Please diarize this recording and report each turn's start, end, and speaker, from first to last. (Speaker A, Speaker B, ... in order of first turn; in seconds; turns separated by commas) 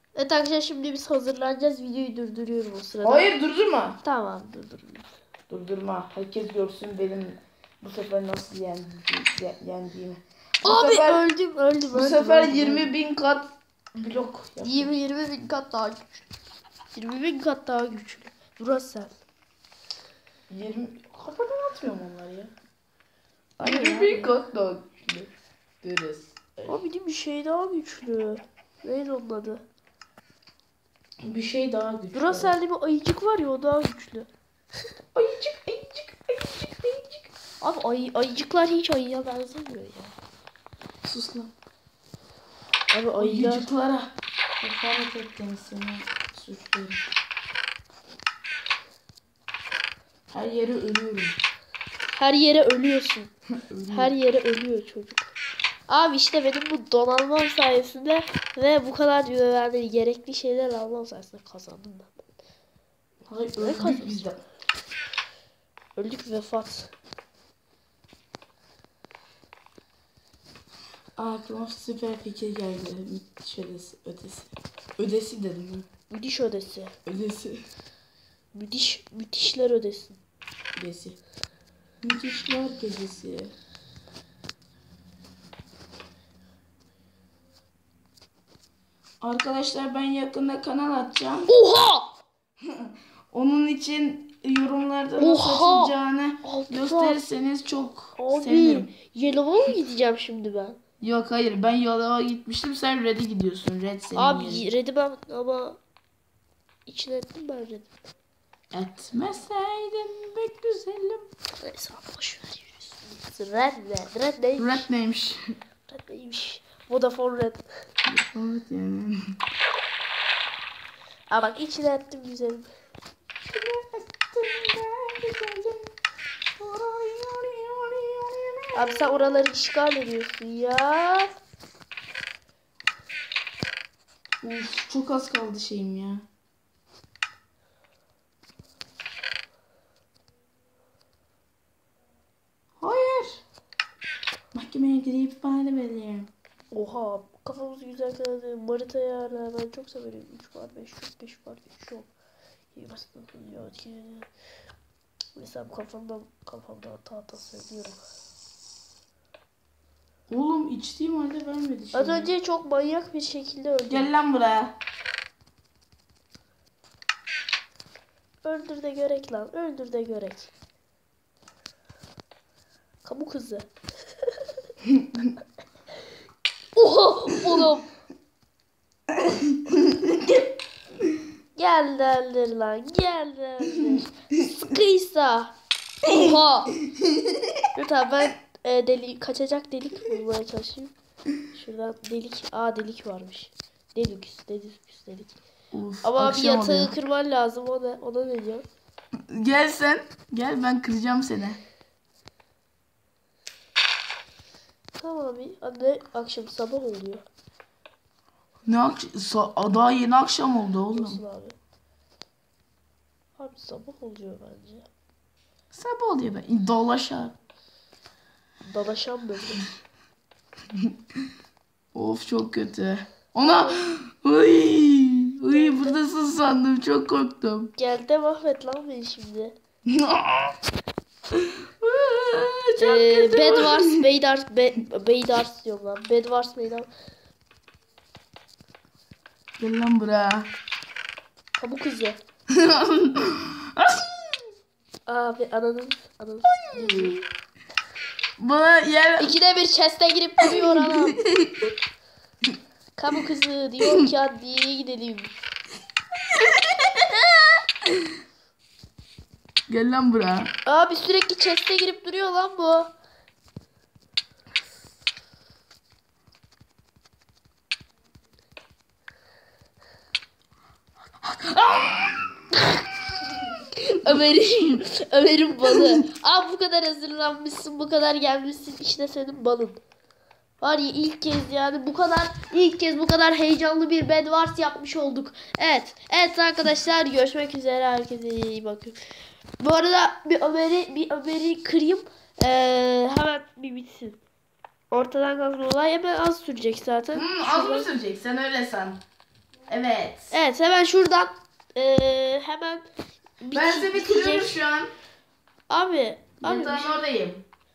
Speaker A: 0.1-3.3, Speaker B: 3.0-4.0, Speaker A: 4.0-5.1, Speaker B: 5.5-11.2, Speaker A: 10.6-12.9, Speaker B: 11.9-14.9, Speaker A: 14.6-16.2, Speaker A: 16.9-19.1, Speaker B: 20.5-22.5, Speaker B: 23.6-25.3, Speaker A: 23.6-24.3, Speaker B: 25.8-26.8, Speaker A: 26.7-29.6, Speaker B: 31.2-32.5, Speaker A: 32.1-34.3, Speaker B: 35.1-37.3, Speaker A: 37.6-40.1, Speaker B: 41.0-41.5, Speaker A: 42.9-43.7, Speaker B: 43.1-47.0, Speaker B: 50.3-51.4, Speaker A: 52.1-53.3, Speaker B: 53.5-54.1, Speaker A: 53.9-55.3, Speaker A: 55.9-62.2, Speaker B: 63.3-64.4, Speaker A: 63.6-64.3, Speaker A: 66.0-66.9, Speaker B: 71.2-75.9, Speaker A: 76.1-76.9, Speaker B: 77.0-77.6, Speaker A: 78.5-80.2, Speaker B: 80.8-81.2, Speaker B: 82.0-83.5, Speaker B: 89.2-91.5, Speaker A: 91.5-92.2, Speaker B: 92.7-98.9, Speaker A: 95.2-97.2, Speaker A: 98.2-100.8, Speaker B: 101.0-104.6, Speaker A: 104.1-105.8, Speaker A: 106.8-107.9, Speaker B: 108.7-111.3, Speaker A: 111.6-114.9, Speaker B: 114.6-115.4, Speaker A: 115.9-117.6, Speaker B: 118.0-119.4, Speaker A: 121.3-122.7, Speaker B: 123.4-125.9, Speaker B: 126.5-129.5, Speaker A: 128.7-131.3, Speaker B: 134.4-136.2, Speaker B: 142.8-143.4, Speaker B: 144.5-146.3, Speaker A: 146.7-152.1, Speaker A: 152.7-154.3, Speaker A: 155.3-158.1, Speaker B: 160.3-162.3, Speaker A: 161.9-164.1, Speaker B: 163.9-164.8, Speaker A: 168.4-170.5, Speaker A: 173.0-173.7, Speaker A: 176.8-177.9, Speaker B: 179.1-180.4, Speaker A: 181.6-186.8, Speaker B: 187.0-187.4, Speaker A: 187.7-190.9, Speaker A: 191.5-195.3, Speaker B: 195.7-196.9, Speaker A: 196.0-198.7, Speaker B: 199.3-201.6, Speaker A: 205.0-207.2, Speaker B: 208.7-211.2, Speaker A: 210.9-211.6, Speaker A: 213.4-214.9, Speaker B: 215.7-217.3, Speaker A: 218.6-219.7, Speaker B: 221.9-227.7, Speaker A: 223.4-223.8, Speaker A: 225.5-226.0, Speaker A: 227.8-229.6, Speaker B: 229.8-230.5, Speaker B: 231.3-234.0, Speaker A: 232.8-236.9, Speaker B: 239.6-240.5, Speaker A: 241.6-242.2, Speaker B: 242.5-244.3, Speaker A: 245.1-247.2, Speaker B: 246.6-247.2, Speaker B: 248.4-249.3, Speaker A: 249.2-251.2, Speaker B: 250.4-251.6, Speaker A: 252.9-255.3, Speaker B: 253.8-254.1, Speaker B: 256.3-258.0, Speaker B: 259.7-260.5, Speaker A: 260.6-262.9, Speaker B: 271.2-272.2, Speaker A: 273.9-279.8, Speaker A: 280.6-289.0, Speaker A: 289.6-294.2, Speaker A: 294.9-297.9, Speaker B: 297.1-299.0, Speaker B: 299.7-300.3, Speaker A: 300.3-302.9, Speaker A: 303.4-304.5, Speaker B: 303.5-304.9, Speaker A: 305.7-307.0, Speaker B: 306.4-307.4